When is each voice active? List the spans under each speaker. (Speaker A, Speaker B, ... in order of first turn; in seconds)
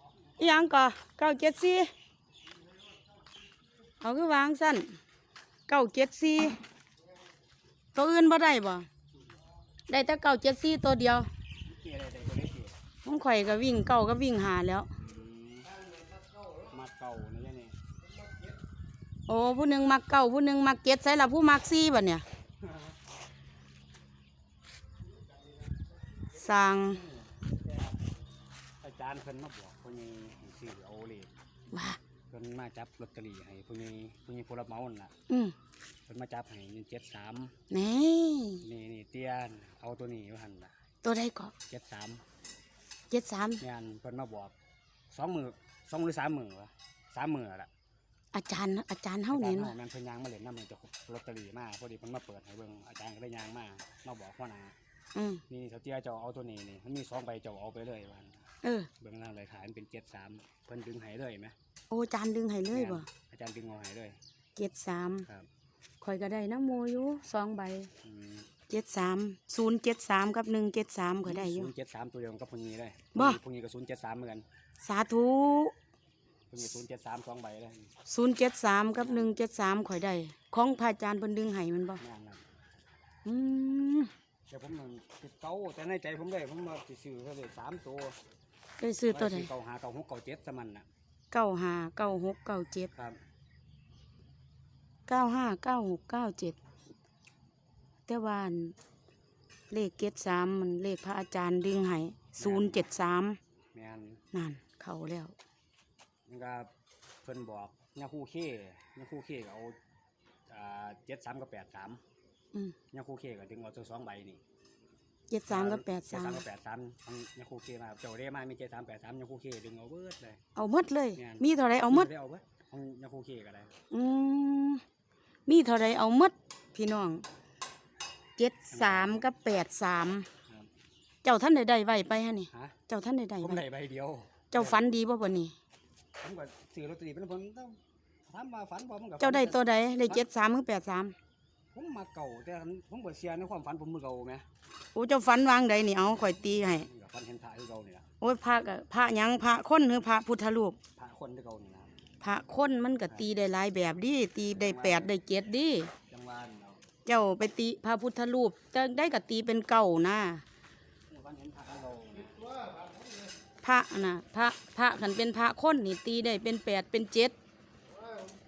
Speaker A: 0.4-1.9, 4.0-5.0, 5.7-6.6, 7.9-8.9, 9.9-11.3, 13.0-14.9, 19.3-22.2, 26.3-27.0, 31.7-32.0, 35.3-35.5, 37.7-38.7, 41.0-41.5, 43.1-43.6, 48.3-49.8, 55.1-55.4, 58.6-58.9, 61.9-63.1, 64.6-65.3, 66.0-67.9, 68.7-71.7, 73.1-73.4, 74.8-75.7, 78.1-82.0, 83.2-84.1, 88.8-89.5, 91.3-92.9, 95.1-96.6, 98.1-98.8, 99.7-103.4, 104.3-105.4, 115.3-116.4, 120.5-122.1, 123.9-124.8, 125.5-127.2, 128.4-130.3, 131.2-133.6, 134.5-135.5, 139.2-141.2, 144.9-146.9, 148.2-150.8, 152.2-155.9, 157.1-160.4, 163.6-167.4
Speaker B: 11.7-12.8, 15.0-15.7, 16.7-17.8, 22.6-22.9, 27.0-28.0, 28.8-31.3, 32.3-35.1, 36.1-37.5, 38.6-40.7, 41.7-42.2, 43.6-44.5, 45.1-47.7, 49.3-54.8, 55.5-58.5, 59.0-61.5, 62.7-64.2, 68.0-68.5, 71.6-74.5, 76.5-77.9, 82.0-82.4, 84.5-88.2, 89.4-90.9, 102.4-102.7, 103.7-104.2, 106.3-106.7, 107.2-109.8, 110.5-112.0, 112.9-114.4, 115.7-120.4, 121.9-123.7, 133.4-134.7, 136.2-139.5, 141.7-144.5, 146.9-148.1, 151.0-151.9, 154.6-155.1, 156.1-156.8, 161.1-162.5